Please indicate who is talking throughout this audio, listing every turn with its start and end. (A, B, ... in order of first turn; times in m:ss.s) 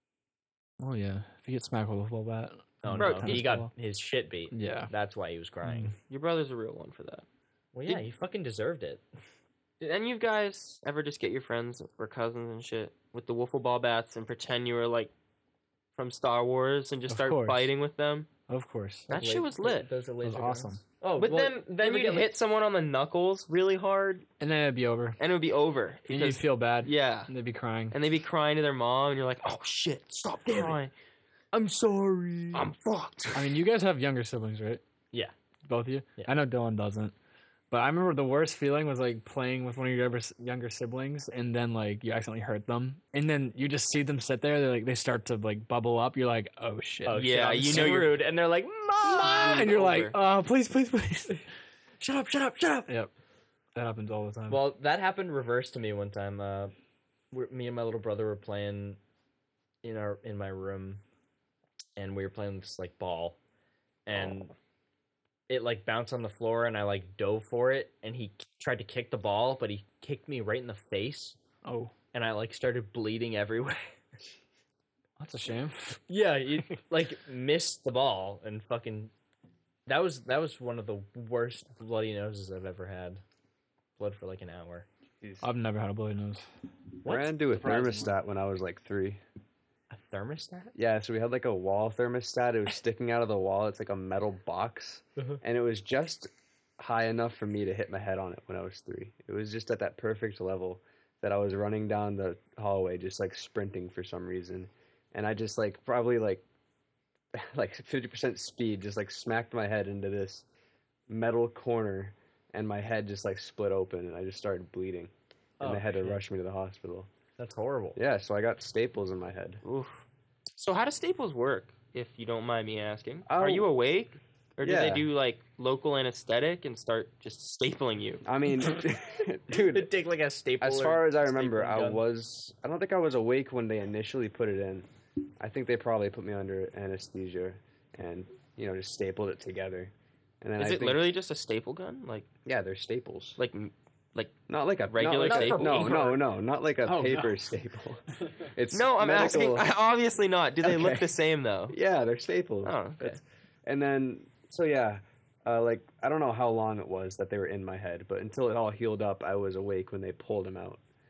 0:00.8-0:03.7 A
0:02.8-0:05.9 B
0:03.0-0:03.4 C
0:04.5-0:04.9 A
0:05.6-0:06.0 A
0:06.0-0:07.2 C
0:07.7-0:09.0 B
0:09.8-0:15.1 C
0:16.0-0:18.3 C
0:17.1-0:17.7 A
0:18.5-0:19.1 A
0:19.1-0:19.9 C
0:19.1-0:22.3 B
0:20.2-0:20.8 A
0:21.2-0:24.2 C
0:24.4-0:25.2 A
0:25.2-0:27.3 C
0:26.1-0:28.0 A
0:27.9-0:30.9 C
0:30.5-0:30.7 A
0:31.5-0:32.6 A
0:32.5-0:33.6 C
0:33.3-0:34.8 A
0:35.6-0:37.1 A
0:37.7-0:47.9 A
0:47.0-0:49.6 B
0:47.1-0:48.2 C
0:49.0-0:51.4 A
0:49.1-0:50.2 C
0:52.0-0:52.9 B
0:53.7-0:54.6 A
0:54.5-0:56.7 B
0:57.3-0:59.0 B
0:59.8-1:01.0 B
1:02.0-1:03.4 B
1:04.0-1:04.5 B
1:05.5-1:11.4 B
1:11.6-1:11.9 A
1:12.1-1:13.9 B
1:15.2-1:16.0 A
1:16.1-1:19.1 B
1:19.9-1:23.2 B
1:24.0-1:24.8 B
1:25.2-1:25.4 D
1:25.4-1:26.5 A
1:27.0-1:28.1 B
1:27.0-1:29.2 D
1:29.9-1:30.7 B
1:30.7-1:46.4 D
1:47.3-1:50.4 D
1:51.1-1:57.1 D
1:55.6-1:56.2 B
1:57.4-1:58.0 B
1:58.0-1:59.6 D
1:59.6-2:00.0 C
2:00.5-2:08.2 C
2:03.2-2:03.7 D
2:04.6-2:05.1 D
2:08.2-2:09.9 D
2:09.5-2:12.0 B
2:10.6-2:14.9 D
2:15.4-2:21.2 D
2:20.6-2:22.3 C
2:22.4-2:23.4 D
2:23.4-2:26.0 C
2:24.5-2:29.7 D
2:25.1-2:26.2 B
2:26.8-2:27.4 A
2:28.7-2:31.8 C
2:30.6-2:31.1 D
2:31.7-2:40.8 D
2:32.6-2:33.2 C